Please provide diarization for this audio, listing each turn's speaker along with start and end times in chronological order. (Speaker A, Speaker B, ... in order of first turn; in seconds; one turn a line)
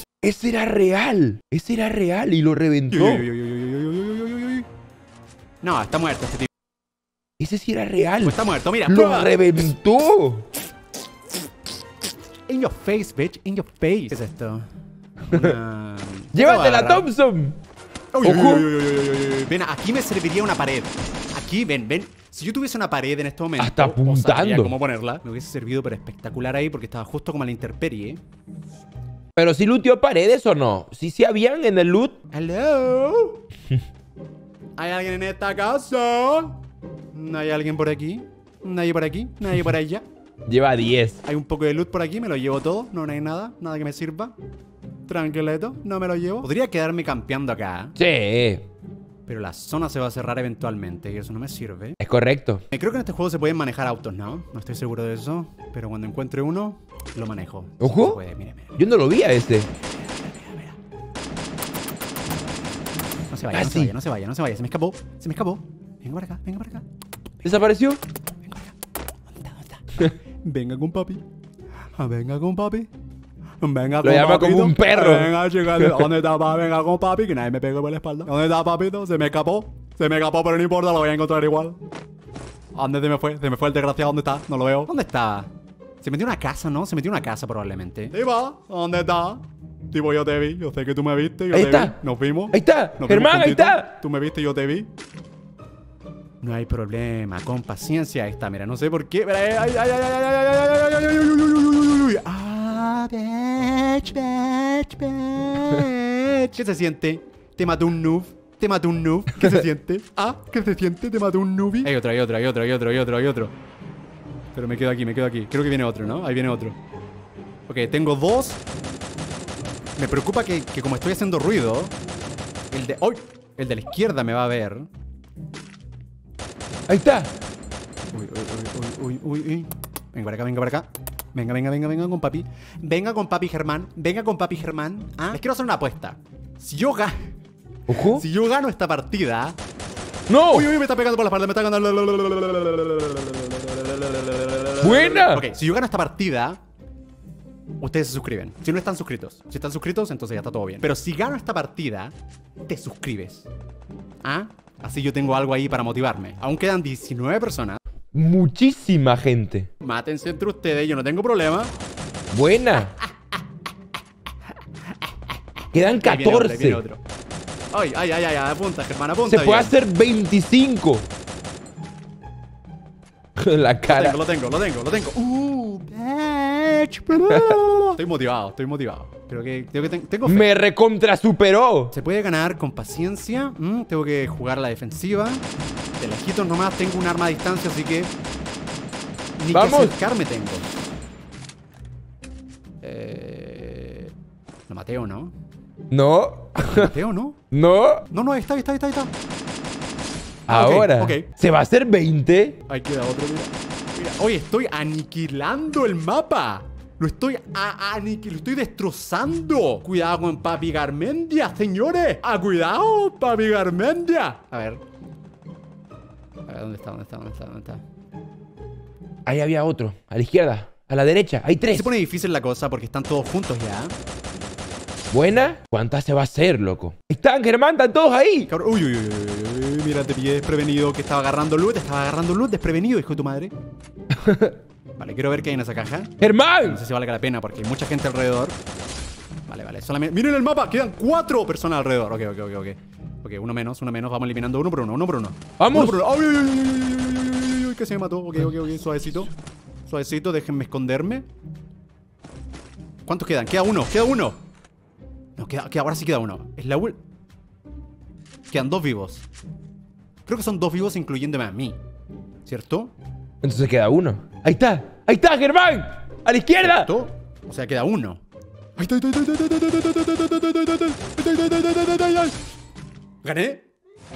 Speaker A: 0.2-3.2
Speaker B: 2.9-4.7
Speaker B: 5.6-6.5
Speaker A: 7.4-10.5
Speaker B: 8.2-9.4
Speaker B: 12.5-14.6
Speaker A: 15.3-15.6
Speaker B: 15.3-17.1
Speaker A: 16.3-17.6
Speaker B: 18.1-28.2
Speaker A: 18.2-18.7
Speaker A: 23.6-24.8
Speaker A: 29.4-32.2
Speaker B: 32.3-33.4
Speaker B: 34.8-36.6
Speaker B: 37.1-40.0
Speaker A: 40.5-41.2
Speaker B: 41.2-44.3
Speaker B: 45.1-48.0
Speaker A: 48.0-48.6
Speaker B: 49.3-52.0
Speaker A: 52.0-52.6
Speaker B: 52.7-58.8
Speaker A: 57.8-58.2
Speaker A: 58.8-59.7
Speaker B: 60.0-60.8
Speaker B: 63.3-66.8
Speaker A: 63.5-63.9
Speaker A: 67.4-68.0
Speaker B: 68.4-68.7
Speaker B: 69.3-71.2
Speaker B: 72.0-72.9
Speaker B: 73.6-81.8
Speaker A: 74.0-76.0
Speaker B: 82.7-85.5
Speaker B: 86.0-94.9
Speaker A: 91.5-92.0
Speaker A: 92.5-94.0
Speaker B: 96.4-113.5
Speaker B: 114.5-116.8
Speaker B: 117.7-118.6
Speaker B: 120.0-121.9
Speaker B: 122.7-124.9
Speaker A: 126.9-127.3
Speaker B: 128.1-137.3
Speaker A: 137.9-138.2
Speaker B: 138.0-139.6
Speaker A: 140.3-140.7
Speaker B: 140.5-146.6
Speaker A: 144.8-145.5
Speaker B: 147.8-152.1
Speaker B: 152.7-153.5
Speaker B: 154.2-157.8
Speaker A: 158.1-159.7
Speaker B: 159.8-161.7
Speaker A: 162.3-163.0
Speaker B: 162.8-163.4
Speaker B: 165.0-165.3
Speaker A: 165.7-166.8
Speaker B: 166.0-167.0
Speaker B: 167.7-169.7
Speaker A: 169.3-171.1
Speaker A: 173.4-174.2
Speaker B: 173.9-180.5
Speaker A: 177.1-177.9
Speaker A: 180.2-181.9
Speaker B: 181.9-185.4
Speaker B: 186.0-188.1
Speaker B: 189.4-190.7
Speaker A: 189.5-189.9
Speaker B: 192.8-194.1
Speaker B: 194.7-195.3
Speaker A: 195.9-196.9
Speaker B: 196.7-197.4
Speaker A: 197.5-198.1
Speaker B: 198.1-199.1
Speaker B: 200.5-201.3
Speaker A: 200.5-202.6
Speaker B: 202.7-214.8
Speaker B: 216.4-217.8
Speaker A: 219.2-221.9
Speaker B: 221.7-223.9
Speaker A: 225.1-228.5
Speaker B: 228.5-233.5
Speaker A: 234.1-234.6
Speaker B: 235.0-238.6
Speaker A: 236.2-236.8
Speaker B: 239.5-249.3
Speaker A: 245.6-246.0
Speaker B: 249.9-251.2
Speaker B: 253.0-254.4
Speaker B: 255.4-257.0
Speaker B: 258.5-259.2
Speaker B: 260.2-261.8
Speaker B: 262.4-262.9
Speaker A: 263.4-266.9
Speaker B: 266.6-268.2
Speaker B: 268.8-272.4
Speaker B: 273.2-273.6